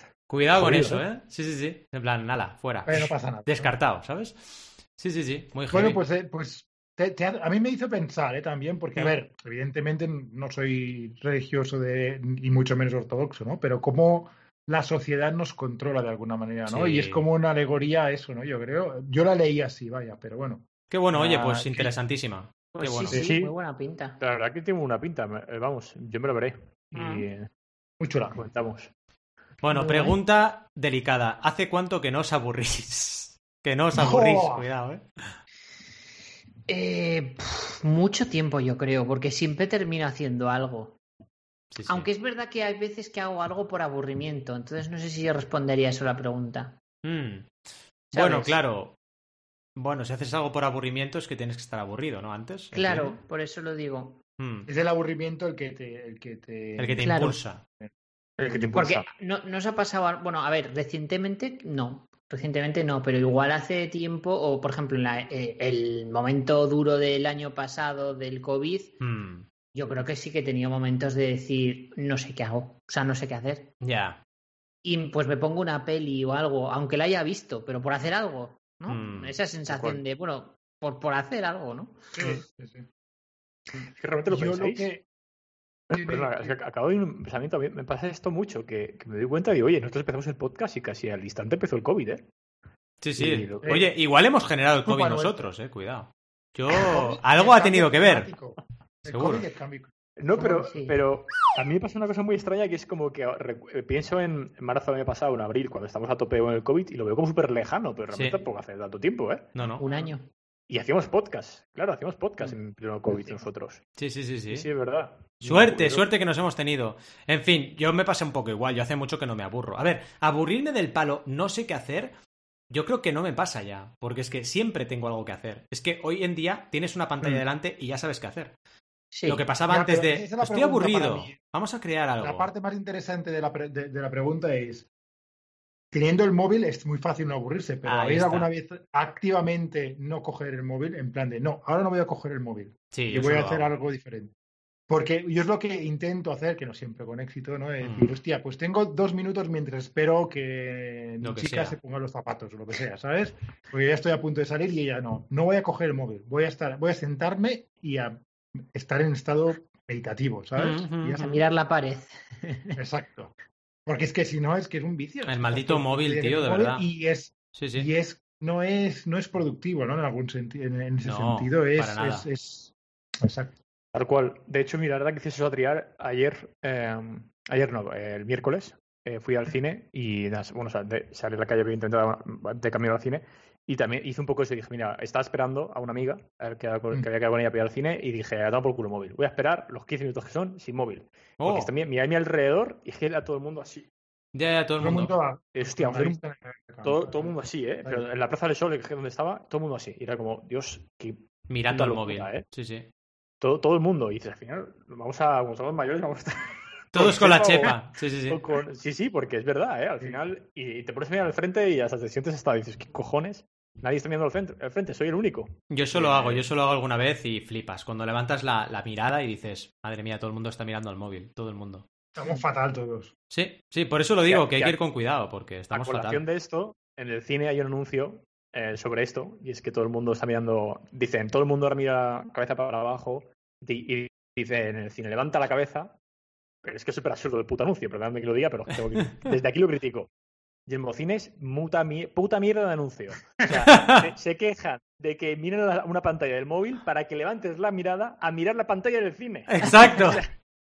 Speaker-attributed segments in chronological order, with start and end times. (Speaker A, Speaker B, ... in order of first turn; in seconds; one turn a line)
Speaker A: 0.3-6.0
Speaker B: 0.5-1.0
Speaker C: 2.9-3.7
Speaker C: 5.7-21.9
Speaker A: 16.6-17.2
Speaker A: 20.9-23.2
Speaker D: 22.8-24.2
Speaker B: 23.1-23.5
Speaker B: 24.2-27.5
Speaker D: 26.9-27.2
Speaker C: 28.0-28.4
Speaker B: 28.3-28.9
Speaker A: 29.6-35.3
Speaker C: 29.7-30.1
Speaker C: 33.9-34.7
Speaker D: 36.7-41.0
Speaker A: 41.7-42.1
Speaker D: 41.9-46.8
Speaker A: 47.0-47.5
Speaker D: 48.1-48.6
Speaker A: 48.1-48.9
Speaker A: 49.8-53.2
Speaker D: 52.7-54.2
Speaker A: 54.4-54.7
Speaker C: 54.6-57.9
Speaker A: 56.8-57.6
Speaker D: 57.0-57.4
Speaker B: 58.4-59.0
Speaker C: 58.5-58.8
Speaker D: 58.8-69.0
Speaker A: 69.0-69.5
Speaker D: 69.7-73.7
Speaker A: 73.8-74.2
Speaker D: 74.8-82.2
Speaker A: 78.8-79.4
Speaker B: 79.7-80.0
Speaker C: 82.1-82.9
Speaker B: 83.7-84.9
Speaker C: 84.3-85.0
Speaker B: 85.9-92.2
Speaker C: 85.9-86.5
Speaker A: 93.0-98.3
Speaker B: 93.2-93.8
Speaker C: 93.6-93.9
Speaker C: 94.8-95.4
Speaker C: 96.7-100.7
Speaker A: 99.0-99.4
Speaker B: 100.2-110.1
Speaker D: 100.6-100.9
Speaker A: 108.1-108.4
Speaker A: 109.5-109.8
Speaker D: 109.8-110.3
Speaker B: 110.7-113.9
Speaker A: 114.0-114.7
Speaker B: 114.5-116.0
Speaker A: 115.4-122.2
Speaker A: 122.7-128.5
Speaker D: 129.1-129.4
Speaker A: 129.2-132.5
Speaker C: 129.7-131.4
Speaker C: 132.2-134.9
Speaker C: 135.9-144.3
Speaker A: 137.8-138.5
Speaker A: 142.9-143.7
Speaker C: 144.9-161.3
Speaker A: 147.8-148.1
Speaker A: 151.2-151.8
Speaker A: 160.6-161.4
Speaker D: 161.2-162.8
Speaker C: 162.8-163.3
Speaker C: 163.8-173.5
Speaker A: 165.2-166.8
Speaker A: 167.5-167.9
Speaker A: 171.0-172.3
Speaker B: 173.9-193.9
Speaker A: 191.4-191.7
Speaker A: 194.3-195.1
Speaker C: 194.8-198.0
Speaker B: 195.5-196.2
Speaker B: 196.8-202.4
Speaker A: 201.5-202.9
Speaker B: 203.4-216.4
Speaker A: 206.9-208.4
Speaker A: 215.7-221.8
Speaker C: 222.1-223.1
Speaker A: 223.3-226.2
Speaker B: 224.2-224.8
Speaker B: 225.7-235.9
Speaker B: 236.6-240.1
Speaker B: 240.7-250.3
Speaker A: 243.7-244.0
Speaker A: 249.5-250.2